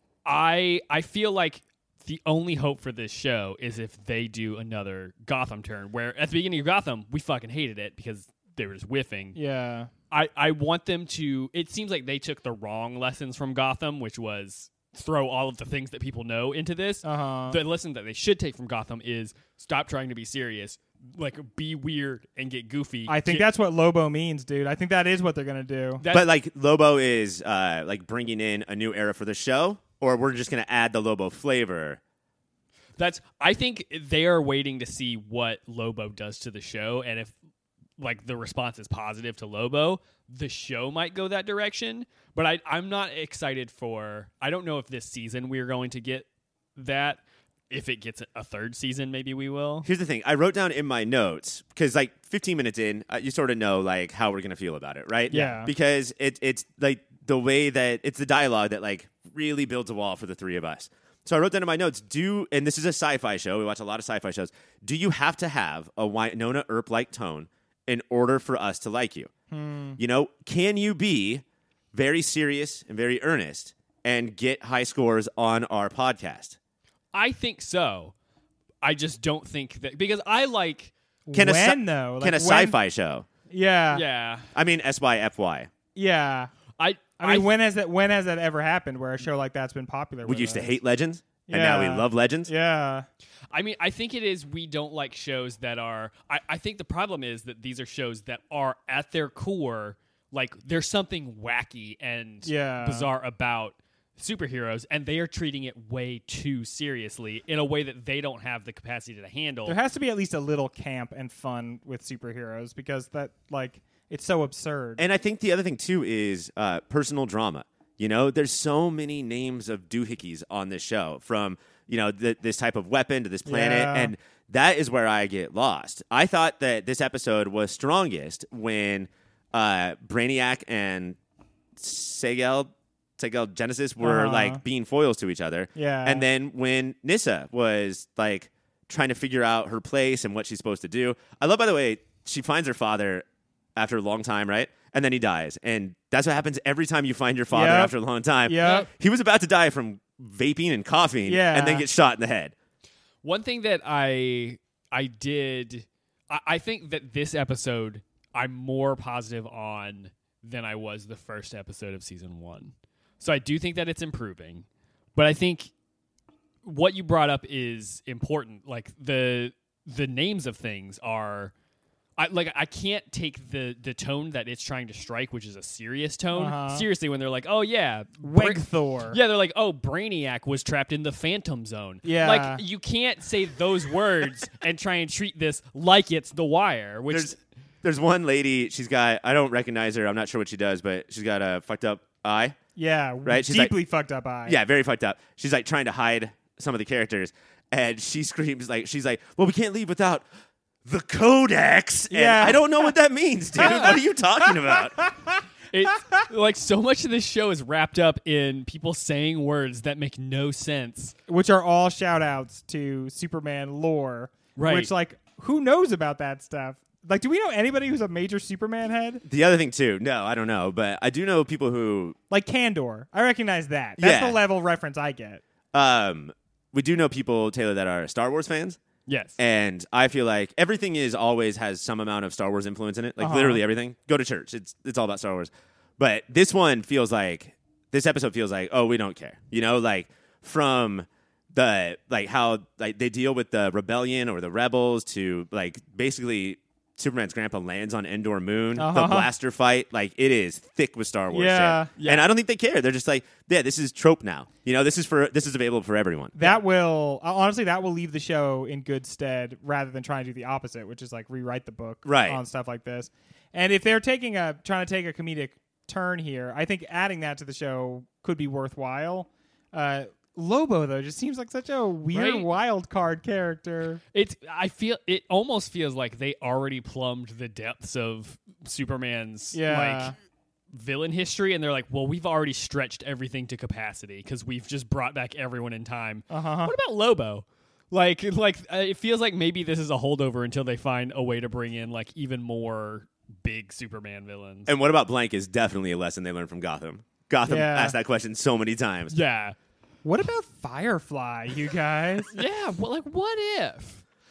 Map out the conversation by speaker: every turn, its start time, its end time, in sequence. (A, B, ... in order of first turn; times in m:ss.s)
0:00.2-0:09.4 A
0:09.3-0:09.9 B
0:10.1-0:23.4 A
0:17.0-0:17.6 B
0:23.1-0:26.0 B
0:26.0-0:26.3 A
0:26.1-0:32.0 C
0:33.0-0:37.3 A
0:38.0-0:49.9 A
0:49.8-1:09.3 C
0:55.3-0:55.7 B
0:55.3-0:55.6 A
1:09.5-1:10.0 B
1:10.0-1:11.4 C
1:11.9-1:16.6 C
1:17.1-1:18.1 A
1:18.8-1:20.9 A
1:21.3-1:22.8 B
1:21.3-1:23.2 C
1:23.5-1:24.0 B
1:23.9-1:24.5 A
1:24.5-1:25.7 C
1:25.9-1:26.5 B
1:26.8-1:27.5 A
1:27.2-1:30.7 B
1:30.2-1:32.5 C
1:31.5-1:33.0 B
1:33.5-1:49.8 A
1:42.4-1:43.1 B
1:49.6-1:55.0 B
1:55.0-2:11.2 C
2:03.4-2:04.1 B
2:11.8-2:23.2 C
2:14.0-2:14.6 B
2:15.7-2:16.2 B
2:23.8-2:32.5 C
2:27.5-2:27.9 B
2:28.4-2:28.9 B
2:28.6-2:28.9 A
2:31.2-2:31.8 B
2:33.2-2:45.7 A
2:46.6-2:51.5 A
2:52.2-3:07.4 A
2:56.3-2:56.9 B
2:58.2-2:59.2 B
3:02.0-3:02.6 B
3:07.1-3:12.6 C
3:12.8-3:14.6 B
3:13.2-3:13.7 C
3:14.4-3:20.2 C
3:20.8-3:25.0 C
3:22.1-3:22.9 B
3:23.6-3:25.4 B
3:25.7-3:31.1 A
3:31.3-3:39.2 B
3:34.6-3:34.9 A
3:39.2-3:42.2 C
3:42.3-3:45.4 B
3:44.0-3:44.4 C
3:45.7-3:48.8 C
3:49.1-3:49.4 A
3:49.4-4:16.4 C
3:53.2-3:53.6 B
4:08.8-4:09.3 B
4:11.3-4:11.9 B
4:12.0-4:12.3 A
4:16.3-4:34.0 B
4:22.0-4:22.4 C
4:32.1-4:32.5 A
4:34.1-4:40.1 A
4:39.5-4:40.1 B
4:40.7-4:54.7 A
4:46.3-4:46.7 B
4:54.7-4:59.1 C
4:57.4-4:58.0 B
4:59.1-4:59.5 A
5:00.0-5:02.3 B
5:02.3-5:04.0 A